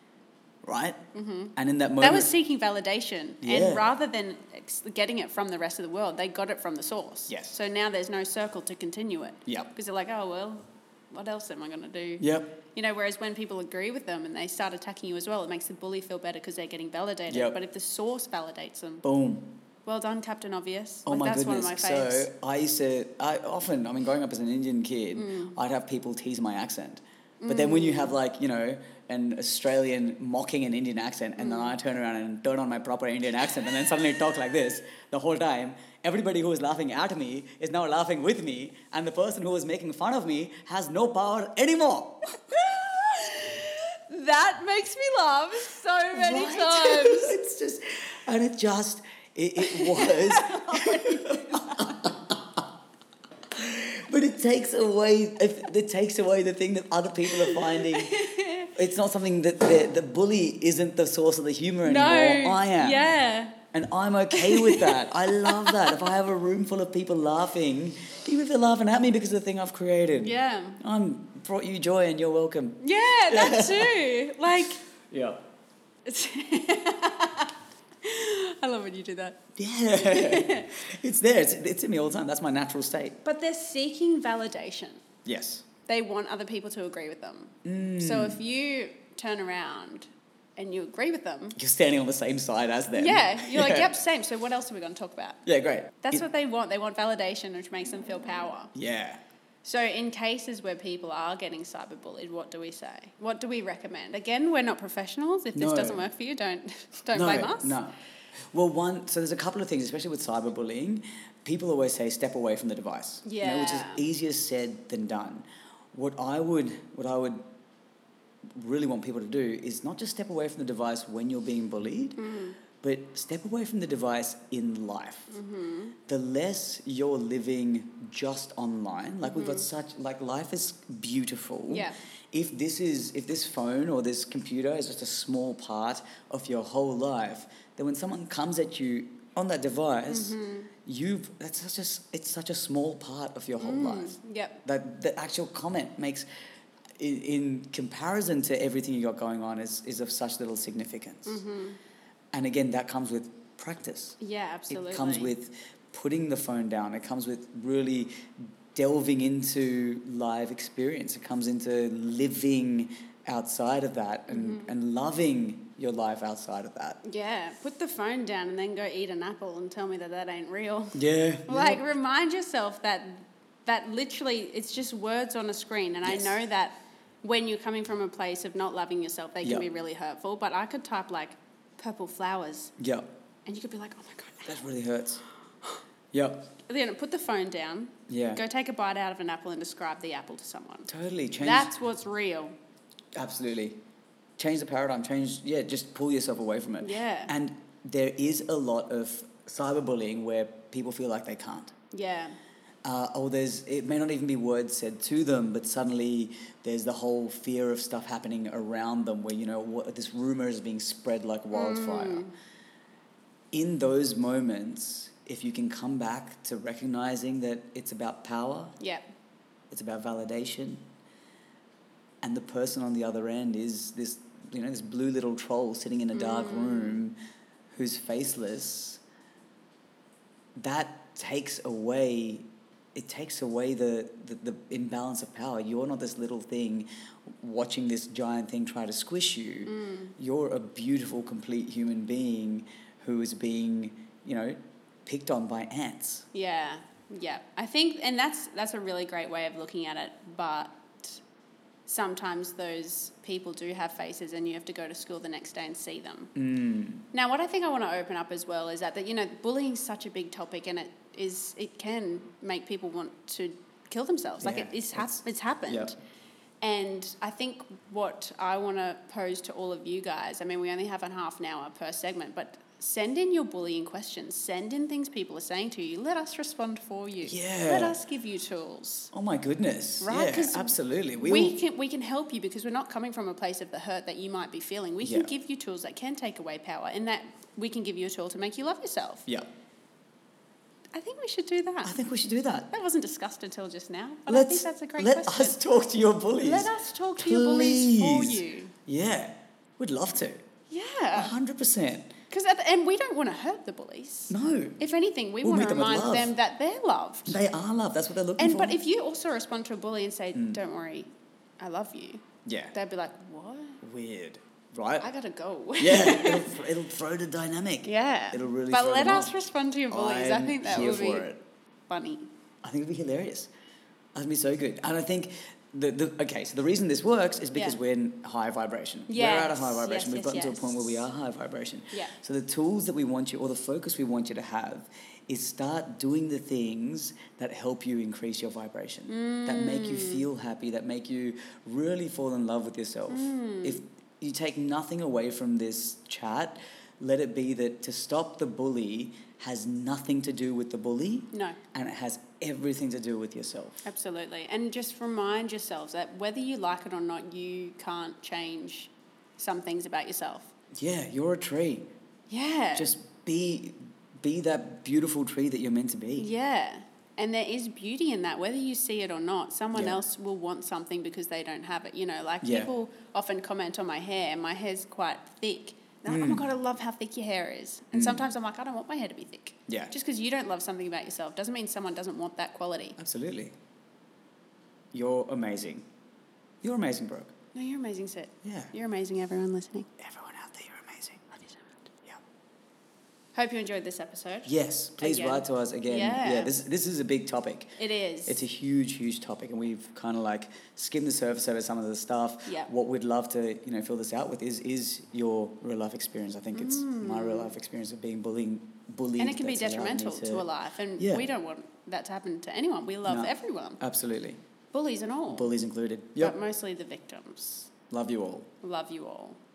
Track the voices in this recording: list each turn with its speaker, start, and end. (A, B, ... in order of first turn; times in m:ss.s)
0:00.6-0:01.0 A
0:01.1-0:19.0 B
0:01.6-0:02.3 A
0:03.4-0:03.9 A
0:07.3-0:07.6 A
0:12.2-0:12.6 A
0:17.3-0:17.6 A
0:19.0-0:19.6 A
0:19.9-0:22.3 B
0:21.1-0:42.8 A
0:25.1-0:25.6 B
0:27.4-0:28.2 B
0:31.4-0:31.7 B
0:42.5-0:47.4 B
0:46.1-0:52.6 A
0:49.6-0:52.1 B
0:53.6-1:03.1 A
0:57.3-0:58.7 B
1:01.8-1:03.6 B
1:03.7-1:14.0 A
1:04.3-1:06.1 B
1:10.2-1:10.8 B
1:12.8-1:14.8 B
1:14.6-1:15.4 A
1:16.1-1:19.4 B
1:19.6-1:23.2 A
1:20.0-1:20.7 B
1:23.2-1:25.0 B
1:25.2-1:25.7 A
1:25.9-1:31.6 B
1:27.6-1:28.4 A
1:31.6-1:33.9 A
1:32.9-1:35.4 B
1:35.4-1:36.2 A
1:36.0-1:38.7 B
1:38.8-1:39.2 A
1:39.6-1:47.8 B
1:45.6-1:46.1 A
1:47.1-1:48.0 A
1:48.5-1:57.4 A
1:53.2-1:54.1 B
1:58.6-2:02.2 A
2:02.2-2:02.6 B
2:02.8-2:05.3 A
2:05.3-2:06.0 B
2:06.1-2:26.3 A
2:09.2-2:09.7 B
2:11.7-2:12.0 B
2:20.1-2:20.7 B
2:23.6-2:24.6 B
2:27.0-2:31.4 A
2:31.3-2:31.8 B
2:32.3-2:34.2 A
2:34.2-2:35.3 B
2:34.7-2:47.0 A
2:44.3-2:44.7 B
2:47.0-3:02.7 B
2:50.9-2:51.8 A
2:56.0-2:56.4 A
3:02.8-3:03.1 A
3:03.5-3:04.6 B
3:04.4-3:05.2 A
3:06.1-3:06.5 A
3:06.7-3:10.9 B
3:08.1-3:08.4 A
3:10.9-3:11.7 A
3:11.4-3:12.6 B
3:13.2-3:13.8 A
3:14.4-3:21.8 A
3:16.8-3:17.3 B
3:21.9-3:22.4 B
3:22.8-3:32.3 A
3:31.5-3:32.3 B
3:33.5-3:38.8 A
3:38.8-3:39.1 B
3:39.7-3:40.8 A
3:42.2-3:47.2 A
3:46.1-3:47.0 B
3:47.7-3:49.0 A
3:50.6-3:56.9 A
3:57.4-4:06.3 A
3:59.6-4:00.2 B
4:06.3-4:11.2 B
4:11.9-4:16.3 B
4:16.4-4:17.1 A
4:17.1-4:26.0 B
4:24.4-4:26.0 A
4:26.6-4:39.1 B
4:37.2-4:38.0 A
4:39.1-4:41.6 A
4:40.0-4:49.3 B
4:45.0-4:45.3 A
4:50.9-4:52.0 B
4:51.8-4:52.7 A
4:52.7-4:55.6 B
4:54.3-5:00.4 A
4:56.4-4:58.8 B
5:00.7-5:01.3 B
5:01.2-5:02.1 A
5:02.3-5:07.4 B
5:04.3-5:04.8 A
5:05.4-5:06.3 A
5:07.3-5:08.8 A
5:08.4-5:13.8 B
5:12.4-5:12.7 A
5:13.8-5:15.1 A
5:15.0-5:16.6 B
5:15.8-5:19.4 A
5:17.8-5:21.3 B
5:19.9-5:21.4 A
5:21.9-5:22.3 B
5:22.6-5:23.5 A
5:24.2-5:53.9 A
5:29.1-5:30.9 B
5:39.1-5:40.2 B
5:43.1-5:43.8 B
5:51.3-5:51.6 B
5:53.8-6:00.5 B
6:00.8-6:01.9 A
6:02.3-6:02.9 B
6:02.8-6:06.3 A
6:06.2-6:23.0 B
6:09.7-6:10.0 A
6:12.4-6:12.7 A
6:16.1-6:16.4 A
6:17.9-6:18.2 A
6:23.0-6:23.6 A
6:24.9-6:25.9 A
6:26.6-6:27.3 A
6:27.6-6:29.9 B
6:28.4-6:28.7 A
6:30.0-6:32.2 A
6:33.4-6:36.5 B
6:34.5-6:37.8 A
6:37.8-6:38.4 B
6:38.3-6:50.5 A
6:42.5-6:42.7 B
6:46.5-6:47.5 B
6:49.2-6:53.8 B
6:51.0-6:51.3 A
6:53.1-6:54.4 A
6:54.7-6:55.5 B
6:55.3-6:56.4 A
6:56.2-6:57.7 B
6:57.9-6:58.5 A
6:58.6-6:59.4 B